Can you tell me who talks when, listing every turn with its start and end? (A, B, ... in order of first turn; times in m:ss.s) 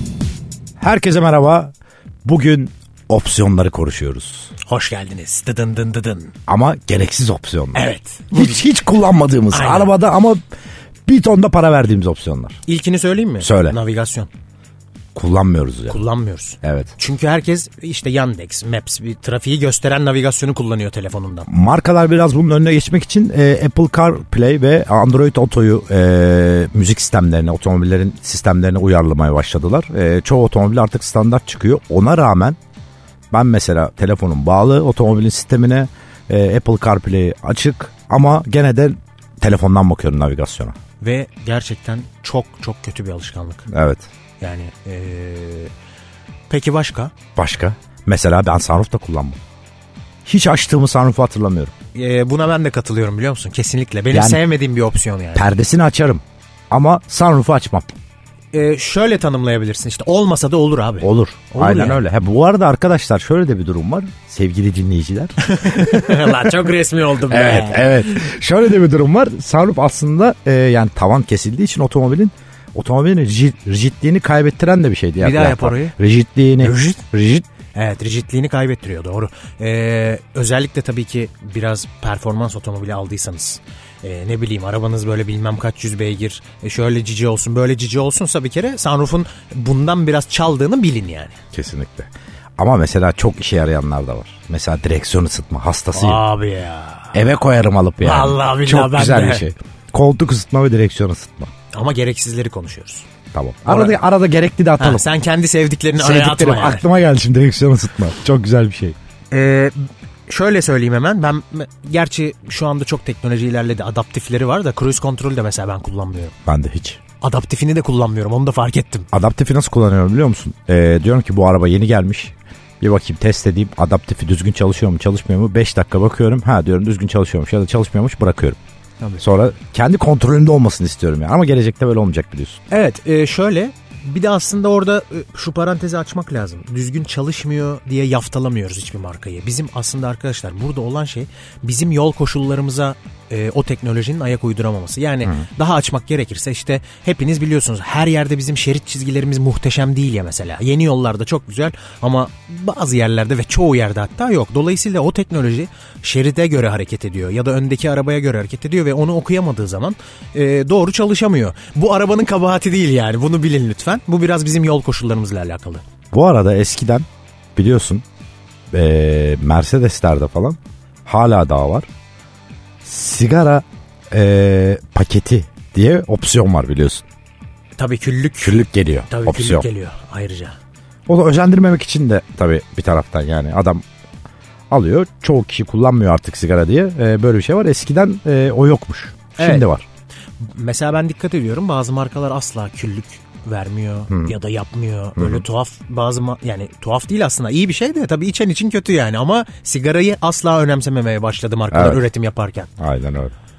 0:00.8-0:01.7 A
0:02.2-0:04.5 A
0:04.6-0:06.3 B
0:06.5-0:10.4 A
0:07.7-0:08.7 B
0:09.5-0:10.0 B
0:11.0-0:12.6 A
0:12.6-0:14.3 B
0:13.4-0:13.8 A
0:15.1-0:16.0 A
0:15.9-0:21.5 B
0:16.6-0:16.9 A
0:21.5-0:32.6 A
0:33.3-0:40.8 A
0:41.0-0:43.7 B
0:43.7-0:44.1 A
0:44.4-0:45.7 B
0:46.5-0:47.1 B
0:47.4-0:49.4 A
0:50.3-0:51.7 A
0:51.9-0:55.5 B
0:54.1-0:54.4 A
0:55.4-0:57.9 A
0:58.5-1:02.0 B
1:01.0-1:06.5 A
1:05.4-1:08.3 B
1:07.3-1:17.4 A
1:15.2-1:16.0 B
1:16.6-1:17.1 B
1:17.7-1:31.4 B
1:31.5-1:36.2 A
1:35.9-1:37.2 B
1:37.1-1:41.5 A
1:38.0-1:39.5 B
1:41.7-1:43.1 B
1:43.3-1:45.1 A
1:43.7-1:44.0 B
1:44.8-1:46.9 B
1:46.0-1:49.0 A
1:49.3-1:56.3 B
1:56.4-1:57.0 A
1:57.2-1:59.1 B
1:59.1-2:08.6 A
2:09.2-2:12.6 A
2:12.7-2:45.8 B
2:46.1-2:48.0 A
2:48.7-2:51.9 A
2:52.8-2:57.0 A
2:57.8-3:00.6 B
2:58.4-2:59.7 A
3:01.1-3:03.8 A
3:04.7-3:09.8 A
3:09.4-3:09.7 B
3:10.4-3:22.7 B
3:14.1-3:14.3 A
3:15.2-3:15.4 A
3:21.7-3:22.0 A
3:22.8-3:23.3 A